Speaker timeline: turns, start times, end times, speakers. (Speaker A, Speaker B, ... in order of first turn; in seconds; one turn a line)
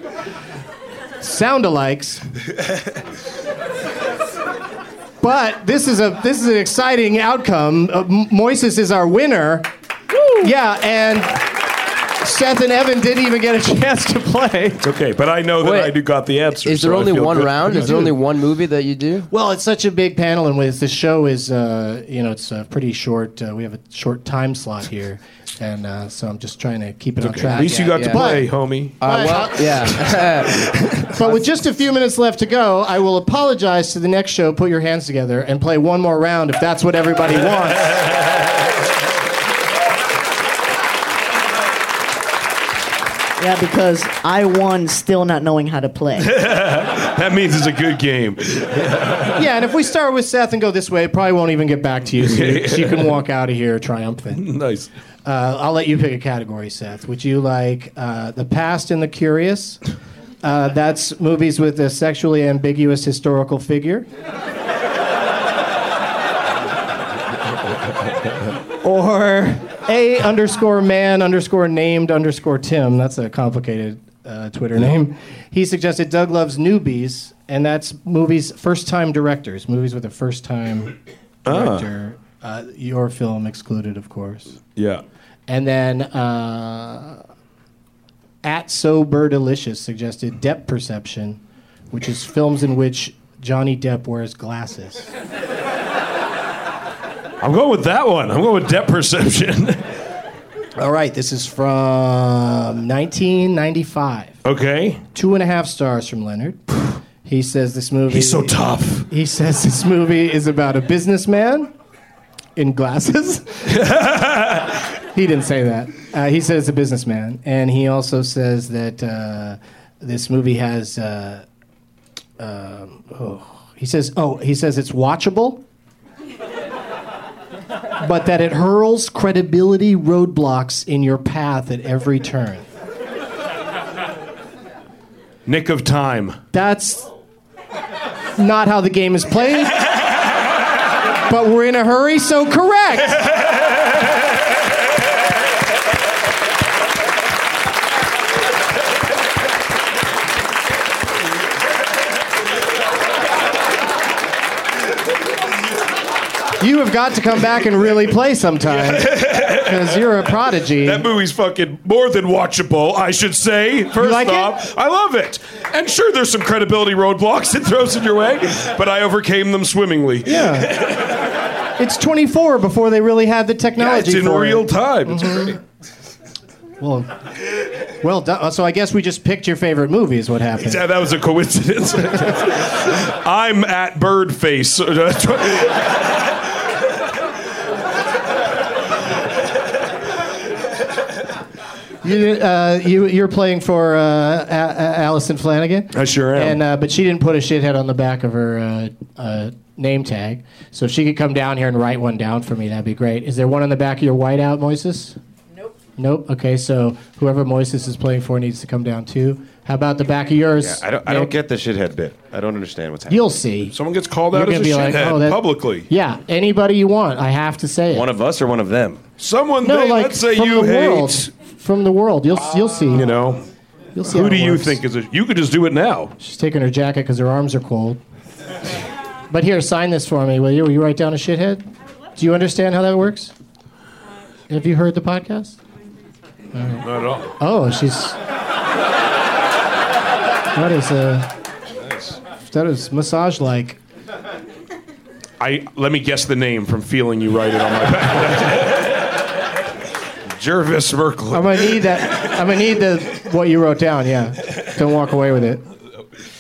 Speaker A: 1.2-2.2
Speaker A: 5.2-9.7
Speaker A: 10.4-11.4
Speaker A: 12.2-14.8
Speaker B: 14.8-18.1
Speaker C: 15.6-15.9
Speaker C: 16.6-19.3
Speaker A: 17.7-18.1
Speaker A: 19.3-30.1
Speaker B: 27.2-31.1
Speaker C: 27.6-28.4
Speaker C: 29.0-30.6
Speaker A: 31.1-38.0
Speaker C: 31.2-31.4
Speaker D: 43.4-46.3
Speaker B: 46.2-49.4
Speaker A: 49.3-54.5
Speaker B: 52.2-53.1
Speaker B: 54.3-54.9
Speaker A: 55.2-59.8
Speaker A: 60.4-64.1
Speaker A: 68.8-84.6
Speaker B: 81.4-81.9
Speaker B: 84.8-85.0
Speaker A: 85.5-87.2
Speaker A: 88.4-95.1
Speaker B: 97.4-99.8
Speaker A: 100.8-104.3
Speaker B: 104.4-105.0
Speaker A: 105.1-108.6
Speaker B: 108.1-109.1
Speaker A: 109.1-111.7
Speaker A: 112.5-113.6
Speaker B: 113.7-114.8
Speaker A: 115.1-121.4
Speaker A: 122.4-125.6
Speaker A: 128.0-132.7
Speaker B: 135.4-136.4
Speaker A: 136.5-137.1
Speaker A: 138.4-139.8
Speaker A: 141.3-143.2
Speaker A: 156.6-161.1
Speaker B: 158.7-159.9
Speaker B: 160.8-171.2
Speaker A: 164.0-164.5
Speaker A: 170.2-170.7
Speaker A: 171.8-175.6
Speaker B: 173.8-175.6
Speaker A: 176.8-177.1
Speaker A: 178.0-180.8
Speaker B: 180.6-185.9
Speaker A: 192.0-205.2
Speaker B: 195.9-196.6
Speaker A: 206.0-211.3
Speaker E: 210.6-213.3
Speaker A: 213.1-213.8
Speaker B: 213.7-215.9
Speaker A: 214.3-218.1
Speaker E: 217.9-219.0
Speaker B: 219.2-221.3
Speaker A: 219.6-223.1
Speaker B: 222.9-223.4
Speaker A: 223.9-224.8
Speaker B: 224.1-226.1
Speaker A: 226.2-228.0
Speaker A: 229.3-233.3
Speaker A: 234.5-235.6
Speaker A: 236.5-236.8
Speaker B: 236.8-237.3
Speaker A: 237.4-238.2
Speaker A: 240.5-241.3
Speaker A: 242.4-243.8
Speaker B: 245.4-248.9
Speaker B: 250.3-252.0
Speaker A: 251.3-255.6